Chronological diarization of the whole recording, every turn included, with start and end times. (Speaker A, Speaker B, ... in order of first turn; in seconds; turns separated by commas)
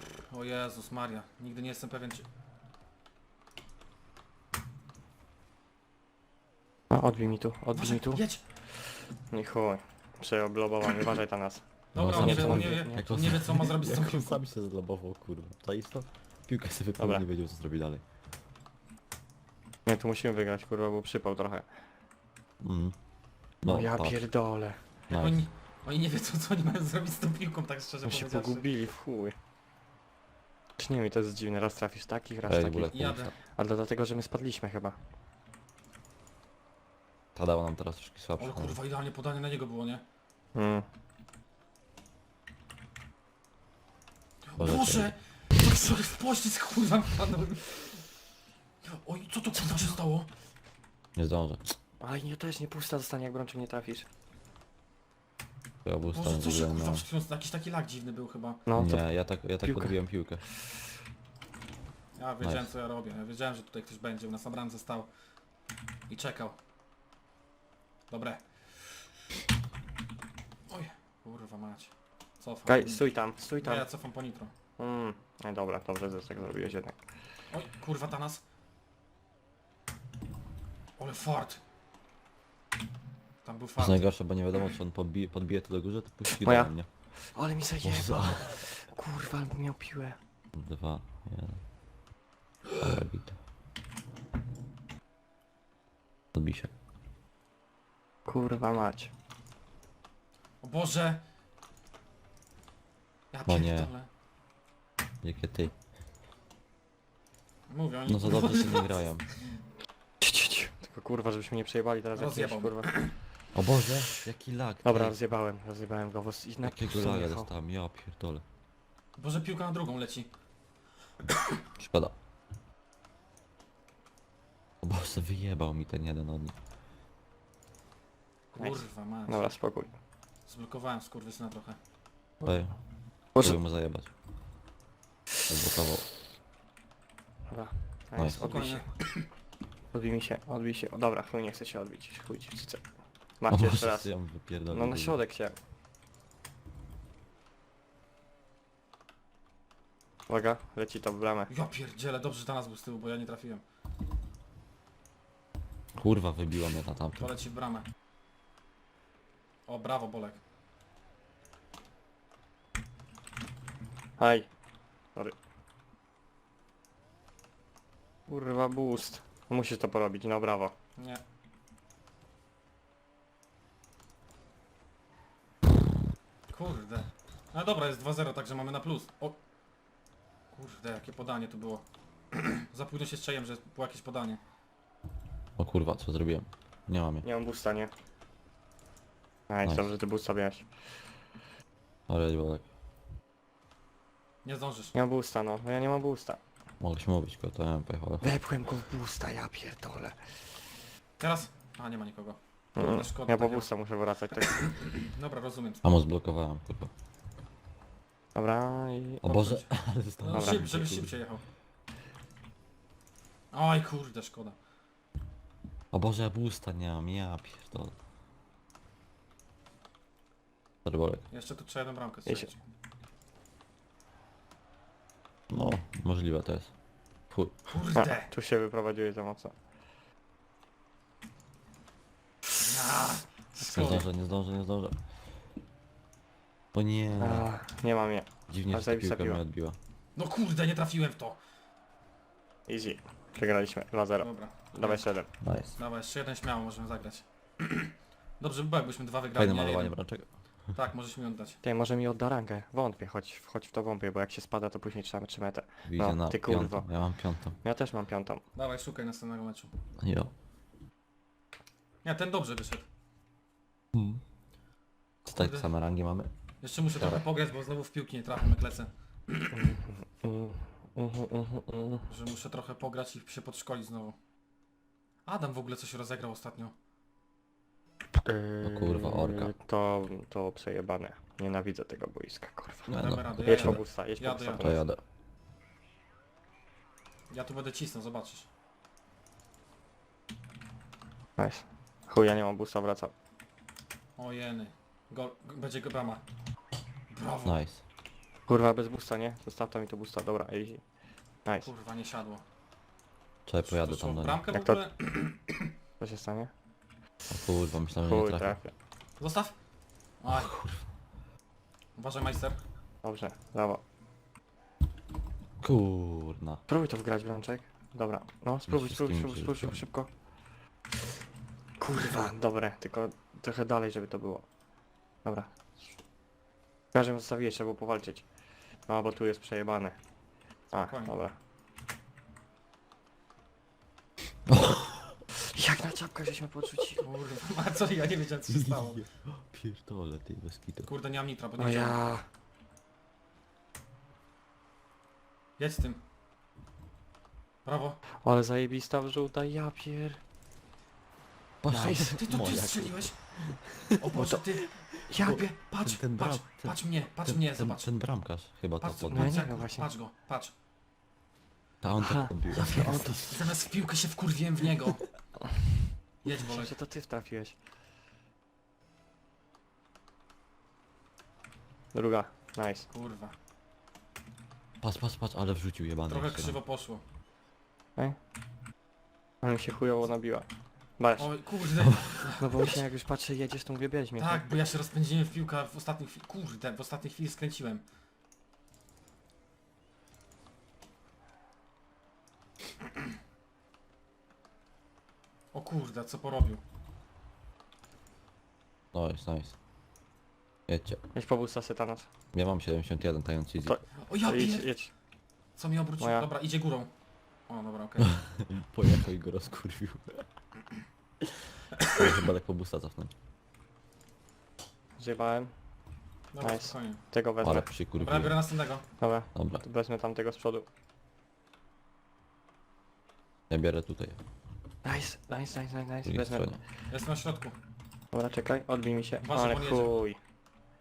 Speaker A: 0.3-2.3, Speaker B: 6.9-8.2, Speaker A: 7.7-8.4, Speaker B: 9.3-13.2, Speaker A: 11.9-14.4, Speaker C: 11.9-18.0, Speaker B: 17.0-17.2, Speaker B: 19.9-21.7, Speaker C: 22.6-23.0, Speaker C: 23.6-24.3, Speaker B: 23.7-24.8, Speaker C: 25.1-25.4, Speaker A: 25.1-28.7, Speaker B: 28.1-29.4, Speaker B: 30.8-35.0, Speaker C: 32.5-33.3, Speaker A: 32.9-33.3, Speaker C: 37.4-38.8, Speaker A: 38.4-40.0, Speaker B: 40.5-40.9, Speaker A: 44.4-48.2, Speaker C: 44.6-45.1, Speaker A: 48.8-50.3, Speaker C: 51.2-51.6, Speaker B: 52.0-54.1, Speaker C: 55.9-57.1, Speaker A: 56.1-58.6, Speaker B: 58.7-60.0, Speaker C: 58.8-60.4, Speaker A: 62.1-65.1, Speaker C: 62.4-62.7, Speaker A: 66.1-66.6, Speaker A: 68.1-69.0, Speaker A: 70.7-74.5, Speaker B: 72.7-73.8, Speaker B: 74.8-77.0, Speaker A: 77.5-78.4, Speaker A: 81.0-81.6, Speaker A: 83.4-84.1, Speaker C: 83.8-86.9, Speaker B: 86.3-90.2, Speaker C: 87.8-88.6, Speaker C: 90.5-91.6, Speaker C: 92.8-93.4, Speaker C: 96.3-96.7, Speaker B: 98.3-99.1, Speaker A: 100.6-101.2, Speaker A: 103.3-104.1, Speaker C: 103.5-103.9, Speaker C: 105.2-105.8, Speaker A: 107.7-109.3, Speaker C: 108.1-109.3, Speaker B: 110.2-113.1, Speaker A: 112.2-113.2, Speaker C: 113.5-115.2, Speaker B: 114.8-117.5, Speaker C: 116.6-118.4, Speaker A: 119.2-120.3, Speaker C: 121.8-122.1, Speaker C: 124.8-126.5, Speaker A: 128.5-129.5, Speaker B: 128.6-129.9, Speaker A: 130.5-131.8, Speaker C: 132.4-132.8, Speaker C: 133.4-134.1, Speaker C: 135.5-136.1, Speaker B: 137.5-138.8, Speaker A: 138.4-139.3, Speaker B: 139.9-142.8, Speaker B: 143.4-145.6, Speaker C: 143.5-145.2, Speaker B: 150.3-151.5, Speaker A: 151.5-153.6, Speaker C: 156.0-157.3, Speaker A: 157.2-157.9, Speaker A: 159.7-160.4, Speaker B: 164.2-164.5, Speaker B: 168.3-170.8, Speaker A: 171.0-171.2, Speaker A: 176.5-179.4, Speaker A: 180.5-184.4, Speaker C: 185.6-187.3, Speaker B: 187.2-187.9, Speaker B: 189.5-190.7, Speaker C: 189.6-189.9, Speaker C: 192.1-192.7, Speaker A: 194.4-194.9, Speaker B: 194.9-196.4, Speaker C: 196.8-198.3, Speaker B: 198.2-200.4, Speaker A: 201.2-203.7, Speaker B: 202.8-204.8, Speaker A: 204.6-205.8, Speaker C: 205.8-206.9, Speaker B: 208.3-209.3, Speaker C: 209.2-211.2, Speaker A: 209.3-209.7, Speaker A: 210.2-211.4, Speaker B: 210.3-210.7, Speaker A: 213.5-214.6, Speaker C: 215.9-217.9, Speaker C: 220.8-221.3, Speaker A: 221.3-222.6, Speaker C: 225.5-226.7, Speaker C: 227.3-227.6, Speaker A: 227.7-228.3, Speaker B: 228.0-229.5, Speaker A: 232.6-234.1, Speaker C: 233.7-235.0, Speaker B: 233.7-234.0, Speaker C: 236.7-237.5, Speaker B: 237.2-239.4, Speaker C: 238.5-239.8, Speaker A: 240.2-241.4, Speaker B: 242.7-245.3, Speaker A: 244.2-245.1, Speaker C: 245.4-245.8, Speaker A: 245.7-250.0, Speaker C: 249.4-250.3, Speaker A: 250.7-251.6, Speaker B: 251.6-258.4, Speaker C: 255.9-257.6, Speaker A: 258.6-259.7, Speaker C: 260.0-260.3, Speaker A: 262.0-262.9, Speaker C: 263.9-264.2, Speaker A: 265.2-265.7, Speaker C: 265.3-266.3, Speaker A: 266.6-269.5, Speaker C: 267.0-267.2, Speaker B: 269.5-272.1, Speaker A: 272.1-274.2, Speaker A: 275.3-276.7, Speaker B: 278.2-282.9, Speaker C: 278.6-279.5, Speaker C: 282.9-284.0, Speaker A: 283.0-284.7, Speaker B: 283.4-284.8, Speaker C: 284.6-285.0, Speaker A: 287.3-288.5, Speaker B: 291.4-293.1, Speaker A: 294.2-296.2, Speaker A: 297.1-297.6, Speaker C: 297.4-297.8, Speaker B: 298.5-300.8, Speaker B: 301.4-301.7, Speaker A: 301.6-302.4, Speaker C: 303.5-304.4, Speaker A: 303.6-305.7, Speaker B: 304.5-304.8, Speaker B: 306.0-306.5, Speaker C: 307.3-308.6, Speaker B: 308.0-308.7, Speaker A: 309.2-309.6, Speaker A: 310.2-310.5, Speaker C: 310.3-310.9, Speaker A: 312.0-312.6, Speaker B: 313.0-313.8, Speaker C: 315.6-316.6, Speaker B: 316.7-320.1, Speaker C: 318.7-319.8, Speaker B: 321.8-324.5, Speaker B: 325.2-325.5, Speaker B: 326.9-328.3, Speaker B: 328.9-330.0, Speaker B: 330.7-331.4, Speaker A: 330.9-331.1, Speaker C: 334.5-335.1, Speaker B: 335.5-337.1, Speaker A: 337.0-339.0, Speaker C: 338.5-340.9, Speaker A: 340.9-342.0, Speaker B: 341.6-342.3, Speaker A: 345.6-346.0, Speaker A: 347.6-348.0, Speaker B: 348.2-350.2, Speaker C: 351.6-353.9, Speaker B: 351.7-352.3, Speaker A: 352.1-357.9, Speaker B: 354.2-355.5, Speaker C: 355.1-359.5, Speaker A: 358.8-360.5, Speaker B: 359.1-359.9, Speaker C: 361.8-363.2, Speaker B: 362.0-363.4, Speaker A: 363.3-365.0, Speaker A: 366.2-366.7, Speaker B: 366.4-367.6, Speaker B: 371.9-372.9, Speaker A: 372.9-373.4, Speaker C: 374.8-376.6, Speaker A: 376.1-377.0, Speaker B: 379.4-380.5, Speaker B: 381.0-381.5, Speaker A: 381.2-382.8, Speaker B: 382.4-384.5, Speaker A: 384.2-387.8, Speaker A: 395.5-396.6, Speaker C: 398.9-399.6, Speaker C: 400.7-401.0, Speaker B: 401.1-402.1, Speaker C: 402.3-403.8, Speaker B: 403.6-404.9, Speaker A: 404.0-404.7, Speaker A: 405.6-406.9, Speaker B: 406.0-406.3, Speaker A: 407.5-408.1, Speaker C: 408.0-410.3, Speaker A: 411.8-412.1, Speaker C: 411.9-413.1, Speaker B: 415.0-415.5, Speaker A: 416.3-417.0, Speaker B: 416.4-417.7, Speaker C: 417.4-418.4, Speaker A: 417.9-418.8, Speaker B: 419.0-420.7, Speaker C: 419.4-419.6, Speaker C: 423.5-424.2, Speaker B: 424.8-426.5, Speaker C: 426.1-426.6, Speaker A: 426.9-427.6, Speaker B: 428.1-430.2, Speaker A: 429.2-430.0